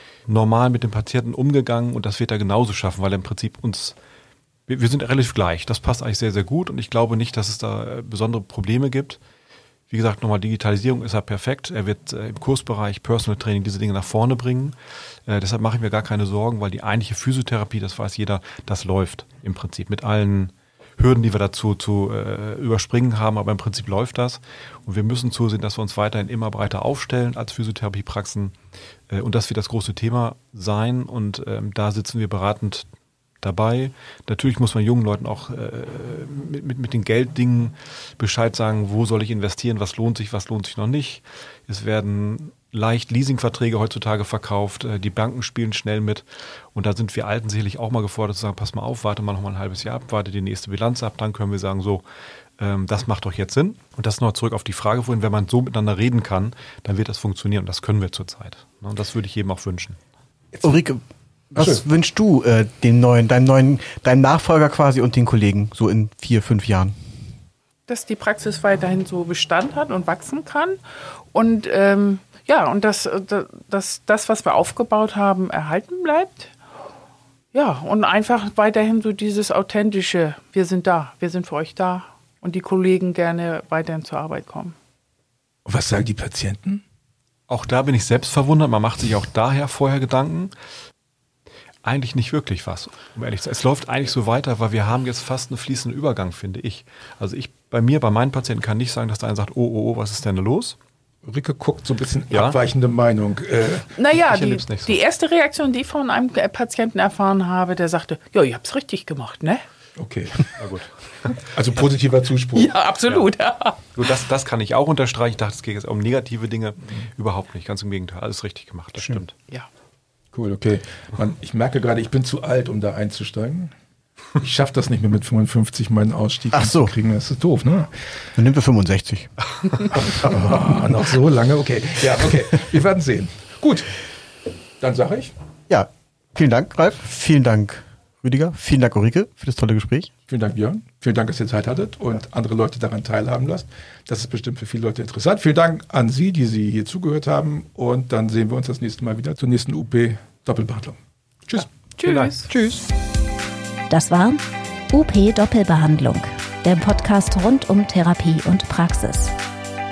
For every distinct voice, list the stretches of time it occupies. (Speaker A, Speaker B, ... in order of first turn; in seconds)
Speaker A: 0.3-3.9, 4.7-9.2, 9.9-14.7, 15.3-28.5, 29.1-32.9, 33.4-52.0, 52.6-60.0, 87.5-90.5, 91.8-100.8, 102.3-102.6, 104.2-105.0, 110.6-110.9, 114.0-119.3, 151.6-152.5
Speaker B: 60.6-61.0, 61.5-66.9, 126.5-126.9, 128.3-129.3, 135.7-140.1
Speaker C: 61.6-61.8, 85.7-86.8, 101.2-103.9, 110.0-110.5, 111.3-112.7, 120.3-123.7, 124.4-127.9, 129.9-133.9, 134.8-135.3, 140.3-151.0
Speaker D: 67.9-70.8, 71.3-76.5, 77.5-84.7, 104.0-109.6, 112.5-113.9, 151.5-152.8
Speaker E: 153.9-154.4, 154.9-159.3